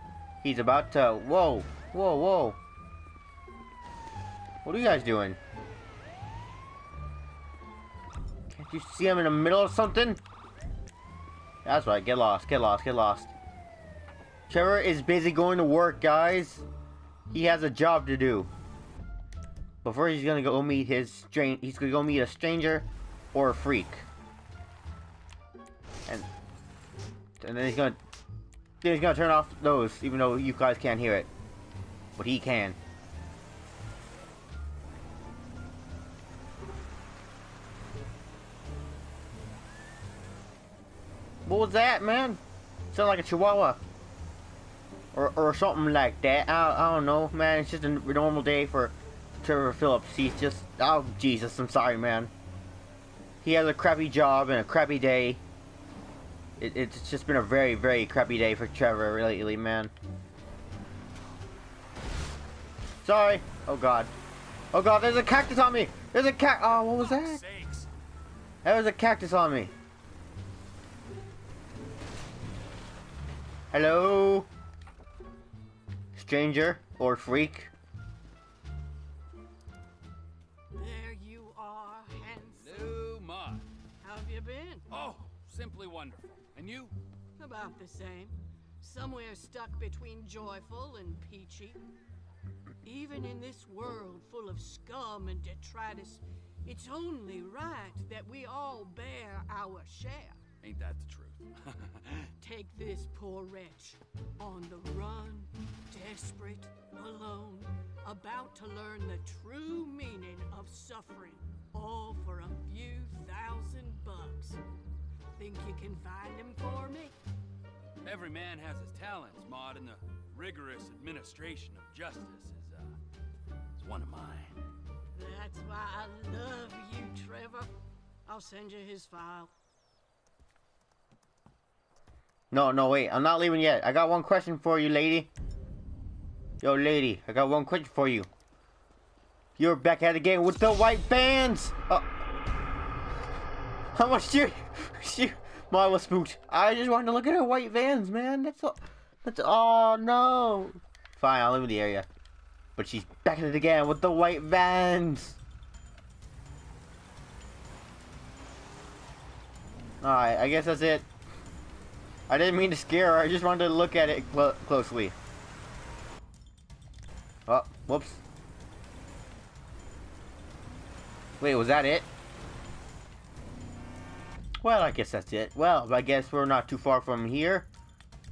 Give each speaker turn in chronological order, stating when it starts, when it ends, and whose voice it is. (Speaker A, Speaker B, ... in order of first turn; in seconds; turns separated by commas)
Speaker A: 0.4-2.6, Speaker A: 4.6-5.4, Speaker A: 8.5-10.2, Speaker A: 11.7-13.3, Speaker A: 14.5-16.6, Speaker A: 17.3-18.5, Speaker A: 19.8-24.1, Speaker A: 27.4-28.0, Speaker A: 28.8-31.3, Speaker A: 32.2-32.8, Speaker A: 41.5-42.4, Speaker A: 42.9-43.8, Speaker A: 45.1-52.3, Speaker A: 53.4-55.4, Speaker A: 56.6-59.9, Speaker A: 63.0-64.1, Speaker A: 64.7-67.4, Speaker B: 66.7-67.9, Speaker A: 68.7-69.7, Speaker A: 73.7-74.5, Speaker A: 76.2-77.7, Speaker C: 80.7-82.9, Speaker B: 82.5-83.7, Speaker C: 84.0-84.9, Speaker B: 84.9-87.0, Speaker C: 87.4-91.8, Speaker C: 92.8-100.4, Speaker B: 100.6-102.3, Speaker C: 102.4-114.6, Speaker C: 115.4-117.2, Speaker B: 118.0-123.0, Speaker B: 123.8-124.5, Speaker C: 125.1-127.7, Speaker C: 128.3-129.5, Speaker A: 132.5-135.3, Speaker A: 136.6-138.3, Speaker A: 139.6-142.1, Speaker A: 143.9-152.1, Speaker A: 152.8-155.4, Speaker A: 160.0-161.1, Speaker A: 162.3-165.2, Speaker A: 167.5-168.2, Speaker A: 171.4-172.1, Speaker A: 174.6-177.7